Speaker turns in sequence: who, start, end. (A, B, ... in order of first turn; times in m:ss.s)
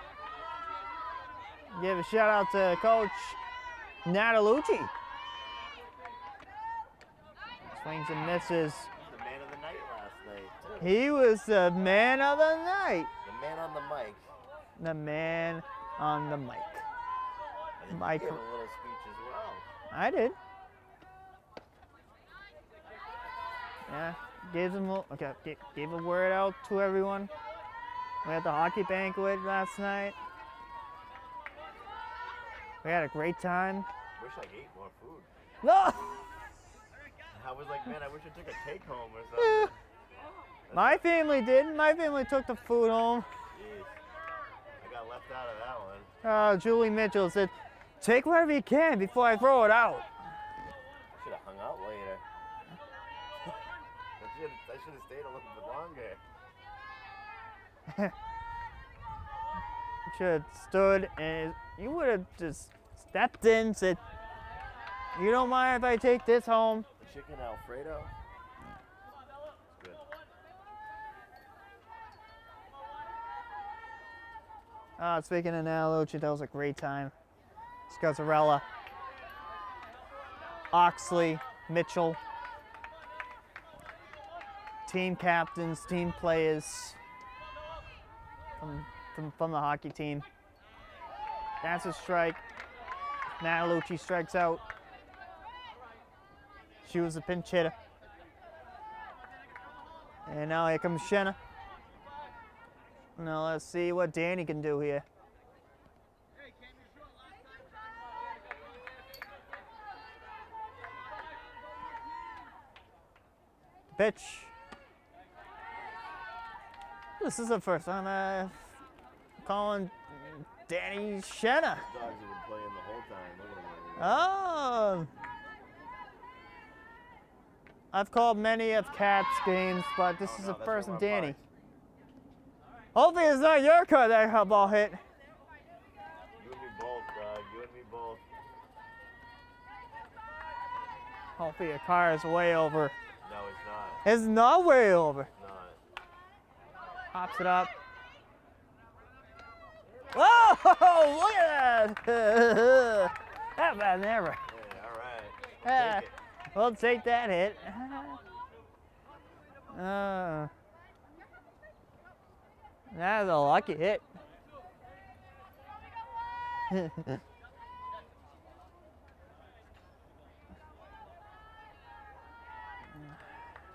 0:01.7-0:03.4 A
0:04.0-0:04.9 A
0:07.6-0:08.9 A
0:08.9-0:11.0 B
0:10.8-0:13.1 A
0:13.2-0:14.2 B
0:14.8-0:16.8 A
0:17.8-0:19.6 B
0:17.9-0:18.4 A
0:19.9-0:20.4 A
0:23.9-0:27.3 A
0:28.2-0:30.2 A
0:32.8-0:33.9 A
0:34.2-0:35.3 B
0:35.6-0:36.3 A
0:37.3-0:39.8 B
0:39.4-0:39.7 A
0:40.7-0:41.1 B
0:40.7-0:43.3 A
0:43.5-0:43.9 B
0:44.8-0:46.1 B
0:46.2-0:50.1 A
0:51.2-0:52.2 B
0:54.2-0:56.2 B
1:00.1-1:04.0 A
1:05.2-1:06.9 A
1:07.0-1:08.1 B
1:09.7-1:10.0 B
1:15.0-1:17.1 A
1:17.9-1:18.6 A
1:20.7-1:22.2 A
1:24.9-1:27.0 A
1:28.6-1:30.3 A
1:31.6-1:32.4 A
1:33.4-1:34.6 A
1:36.8-1:37.7 A
1:40.3-1:41.4 A
1:43.2-1:45.0 A
1:53.9-1:54.5 A
1:57.2-1:58.8 A
1:59.4-2:01.9 A
2:01.8-2:04.3 B
2:04.0-2:05.1 A
2:07.9-2:11.4 A
2:10.2-2:11.5 B
2:12.9-2:15.0 A
2:14.5-2:14.7 B
2:16.4-2:18.2 B
2:21.4-2:22.9 A
2:23.2-2:24.0 B
2:24.0-2:25.3 A
2:25.4-2:25.8 B
2:27.1-2:27.7 A
2:30.1-2:34.4 A
2:34.5-2:36.2 B
2:35.6-2:38.2 A
2:39.7-2:40.5 A
2:42.9-2:44.0 A
2:46.7-2:47.2 A